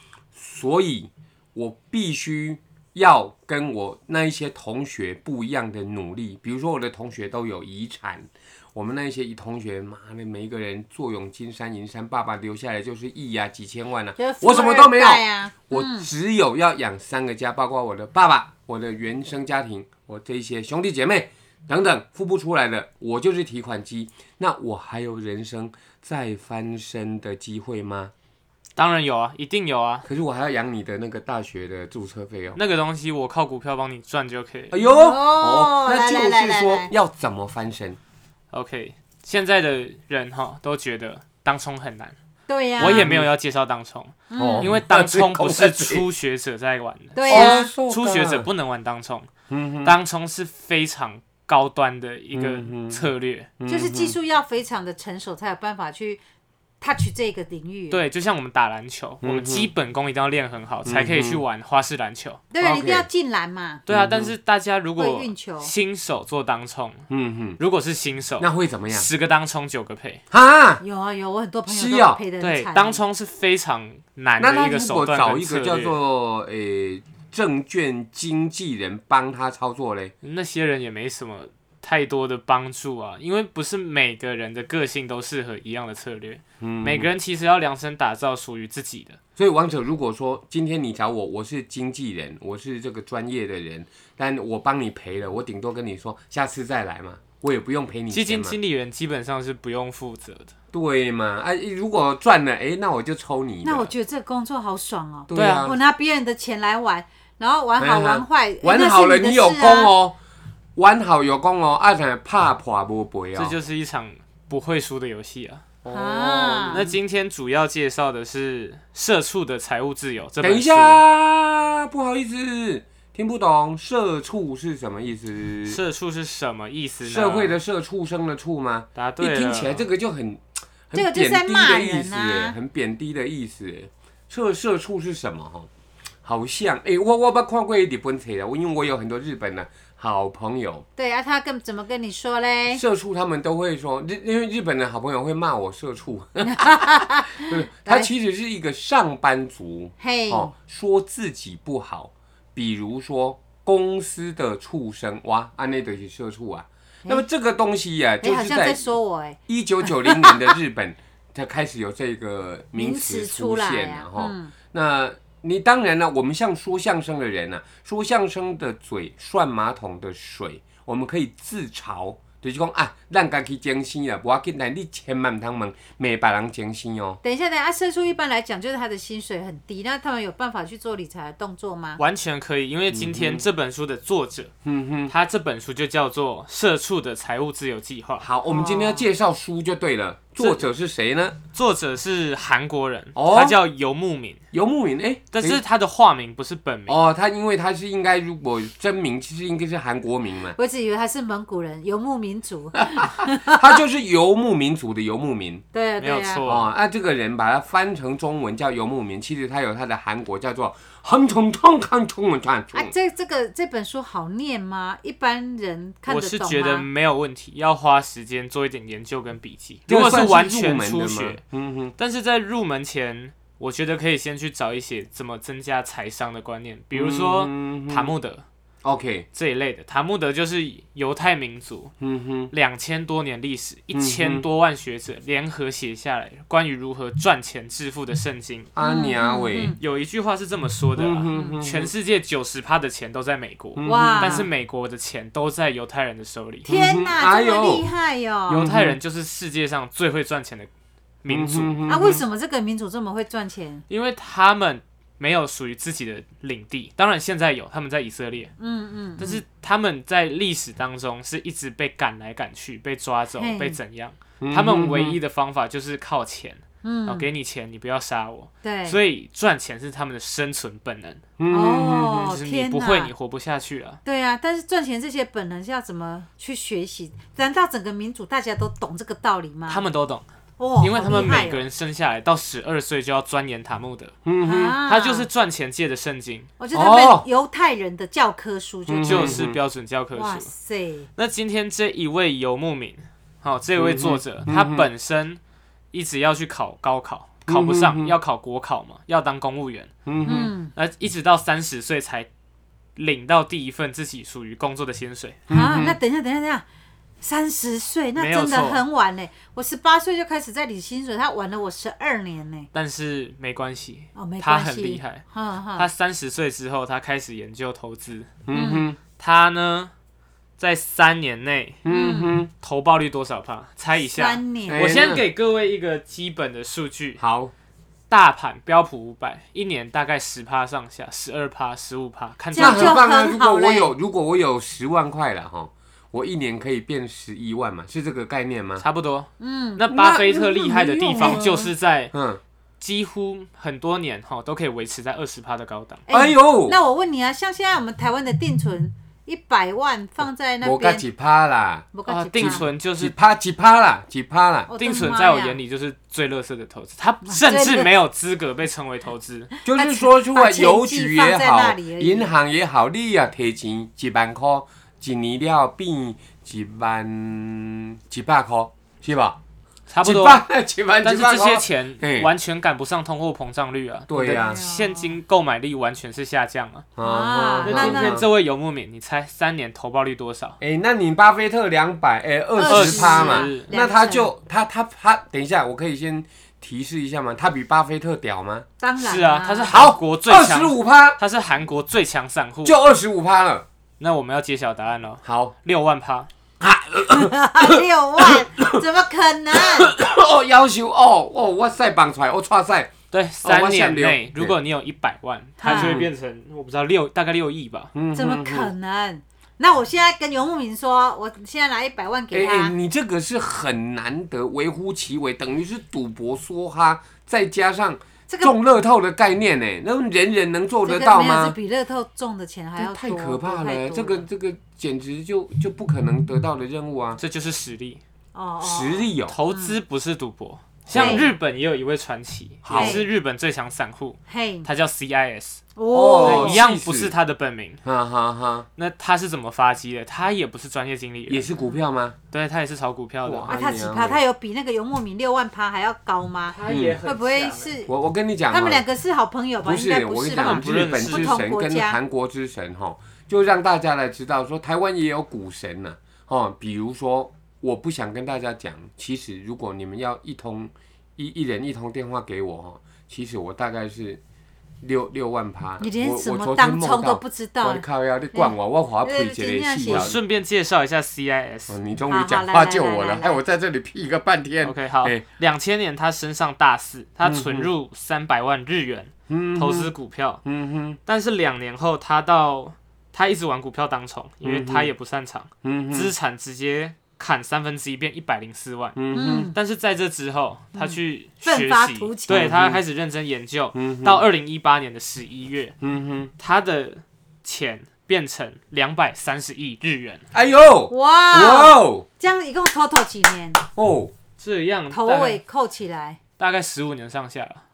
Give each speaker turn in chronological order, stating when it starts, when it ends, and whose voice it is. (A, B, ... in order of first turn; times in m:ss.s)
0:00.3-0:28.1 A
0:14.2-0:16.1 B
0:28.8-0:30.1 C
0:30.1-0:32.6 A
0:32.6-0:34.7 C
0:34.7-0:38.0 A
0:34.8-0:36.9 B
0:38.5-0:42.2 C
0:42.5-0:43.2 B
0:42.8-0:49.3 C
0:42.9-0:43.3 A
0:44.3-0:44.7 B
0:44.4-0:46.0 A
0:47.2-0:47.7 B
0:47.3-0:48.5 A
0:49.5-0:50.0 A
0:49.8-0:53.5 C
0:52.3-0:53.1 A
0:53.6-0:54.2 A
0:53.7-0:56.2 B
0:56.8-0:58.0 B
0:57.9-1:02.4 C
0:59.2-0:59.7 A
1:00.9-1:01.4 A
1:02.5-1:03.8 B
1:02.6-1:03.1 A
1:03.9-1:07.1 C
1:03.9-1:04.3 A
1:05.0-1:05.7 B
1:07.1-1:07.6 A
1:07.6-1:10.2 C
1:08.4-1:09.1 A
1:10.3-1:10.8 A
1:10.8-1:13.0 B
1:11.7-1:12.2 A
1:12.4-1:16.0 C
1:14.4-1:20.1 A
1:20.2-1:29.2 C
1:26.6-1:27.1 A
1:29.4-1:38.6 A
1:38.1-1:40.5 C
1:40.7-1:43.9 A
1:43.6-1:49.9 B
1:45.3-1:45.8 A
1:45.4-1:45.7 C
1:47.8-1:50.2 A
1:50.8-1:53.6 A
1:53.4-1:55.6 C
1:55.8-1:56.9 A
1:55.9-1:56.9 B
1:56.7-2:01.0 C
2:00.4-2:05.8 A
2:05.7-2:07.6 C
2:07.0-2:15.7 A
2:09.0-2:09.8 C
2:10.9-2:12.6 B
2:16.2-2:20.9 A
2:21.0-2:22.8 B
2:22.7-2:38.9 A
2:26.4-2:28.1 B
2:30.0-2:30.5 B
2:38.2-2:40.5 B
2:39.5-2:57.2 A
2:42.8-2:44.5 B
2:57.2-3:02.0 B
3:02.0-3:04.5 C
3:02.9-3:03.4 A
3:04.6-3:05.1 A
3:05.1-3:08.3 C
3:08.2-3:11.4 A
3:08.5-3:09.0 B
3:11.5-3:14.4 C
3:13.2-3:13.6 A
3:14.5-3:15.6 A
3:15.3-3:17.0 C
3:16.9-3:20.6 A
3:20.6-3:23.8 B
3:22.8-3:25.6 A
3:25.7-3:26.5 B
3:26.0-3:26.7 C
3:26.5-3:32.9 A
3:32.7-3:36.9 B
3:36.1-3:41.4 C
3:39.9-3:41.9 A
3:42.0-3:48.4 C
3:46.9-3:48.1 A
3:48.8-3:49.3 A
3:49.3-3:51.9 C
3:52.0-3:52.5 A
3:52.5-3:58.7 C
3:53.9-3:54.4 A
3:58.8-3:59.8 A
3:58.8-3:59.8 B
3:59.8-4:06.7 C
4:01.0-4:01.9 A
4:03.8-4:04.5 A
4:03.8-4:04.5 B
4:06.6-4:08.7 B
4:06.7-4:07.9 A
4:08.5-4:10.7 C
4:08.5-4:09.0 A
4:11.2-4:11.8 C
4:11.3-4:12.2 A
4:11.9-4:13.8 B
4:13.9-4:18.5 C
4:18.6-4:19.4 B
4:19.2-4:31.2 C
4:23.4-4:23.8 B
4:24.4-4:25.2 A
4:26.8-4:27.3 B
4:28.6-4:29.0 B
4:31.4-4:32.3 A
4:31.5-4:33.1 B
4:32.1-4:34.0 C
4:34.0-4:39.8 B
4:39.7-4:40.2 C
4:40.6-4:41.6 B
4:40.8-4:44.2 C
4:44.2-4:44.8 A
4:44.4-4:45.3 B
4:44.8-4:46.5 C
4:46.6-4:49.4 B
4:46.7-4:47.2 A
4:48.9-4:49.6 A
4:49.1-4:50.5 C
4:50.1-4:51.1 B
4:51.2-4:55.4 C
4:53.8-4:54.9 A
4:55.9-4:59.9 C
4:57.5-4:58.2 A
5:00.1-5:00.5 A
5:00.2-5:00.7 B
5:00.7-5:02.3 C
5:03.0-5:05.4 C
5:05.5-5:06.0 A
5:05.5-5:06.6 B
5:07.2-5:12.7 B
5:08.2-5:08.8 C
5:12.7-5:15.2 C
5:14.2-5:15.9 B
5:15.8-5:18.3 C
5:18.5-5:19.0 A
5:18.5-5:18.9 B
5:19.2-5:19.9 C
5:20.6-5:21.8 C
5:21.8-5:22.5 A
5:21.9-5:22.4 B
5:22.6-5:27.2 C
5:24.0-5:24.8 B
5:24.7-5:25.2 A
5:27.2-5:27.5 A
5:28.1-5:33.0 C
5:32.5-5:33.9 B
5:32.6-5:38.8 A
5:38.8-5:42.1 C
5:39.4-5:39.8 B
5:39.9-5:42.4 A
5:41.2-5:41.6 B
5:42.8-5:46.0 C
5:46.1-5:51.0 B
5:46.1-5:46.8 A
5:50.6-5:54.7 A
5:51.9-5:52.7 B
5:52.1-5:53.1 C
5:54.7-5:55.6 B
5:54.8-5:59.5 C
5:57.3-5:57.9 B
5:59.6-6:02.3 B
5:59.6-6:09.4 A
6:09.9-6:10.4 C
6:10.0-6:12.3 A
6:11.0-6:16.9 C
6:14.1-6:14.6 A
6:14.2-6:15.2 B
6:17.0-6:18.3 A
6:17.0-6:18.2 B
6:17.6-6:20.6 C
6:20.6-6:28.7 A
6:22.6-6:24.3 B
6:22.7-6:23.7 C
6:28.8-6:29.8 B
6:29.0-6:32.8 C
6:29.7-6:31.2 A
6:32.6-6:33.6 A
6:34.0-6:36.3 C
6:35.2-6:35.5 A
6:36.6-6:38.8 A
6:37.1-6:39.9 B
6:39.5-6:44.6 A
6:43.1-6:47.9 C
6:45.6-6:46.0 B
6:45.7-6:46.1 A
6:47.9-6:48.7 A
6:48.1-6:52.8 B
6:52.3-7:01.6 A
6:58.3-6:58.5 B
7:00.8-7:04.3 B
7:02.8-7:07.2 A
7:07.2-7:08.0 C
7:08.3-7:09.8 B
7:08.6-7:09.4 A
7:09.3-7:15.6 C
7:10.9-7:11.3 A
7:10.9-7:11.3 B
7:12.6-7:13.0 A
7:12.8-7:13.1 B
7:14.3-7:14.7 B
7:15.8-7:16.6 B
7:15.9-7:17.1 A
7:16.2-7:17.8 C
7:17.8-7:18.7 A
7:18.8-7:21.5 C
7:21.3-7:22.2 A
7:22.3-7:23.6 C
7:23.2-7:24.2 A
7:23.5-7:27.9 B
7:26.5-7:27.8 C
7:26.7-7:27.0 A
7:27.9-7:28.8 A
7:28.5-7:32.0 B
7:29.6-7:44.2 A
7:30.3-7:31.4 C
7:44.8-7:50.2 A
7:45.8-7:50.2 B
7:49.9-7:51.8 C
7:51.7-7:55.2 A
7:52.1-7:53.4 B
7:54.6-8:00.4 C
7:57.2-7:57.7 A
7:59.3-7:59.9 A
8:00.4-8:01.0 A
8:01.1-8:09.0 C
8:04.4-8:04.9 A
8:05.6-8:06.1 A
8:09.0-8:09.5 A
8:09.1-8:09.6 B
8:09.5-8:15.8 C
8:10.8-8:12.5 B
8:12.3-8:12.8 A
8:13.8-8:14.2 A
8:15.8-8:16.3 A
8:16.4-8:20.2 C
8:20.3-8:22.1 A
8:20.9-8:23.6 B
8:23.8-8:24.1 A
8:24.4-8:25.4 C
8:24.9-8:26.2 B
8:26.4-8:27.6 C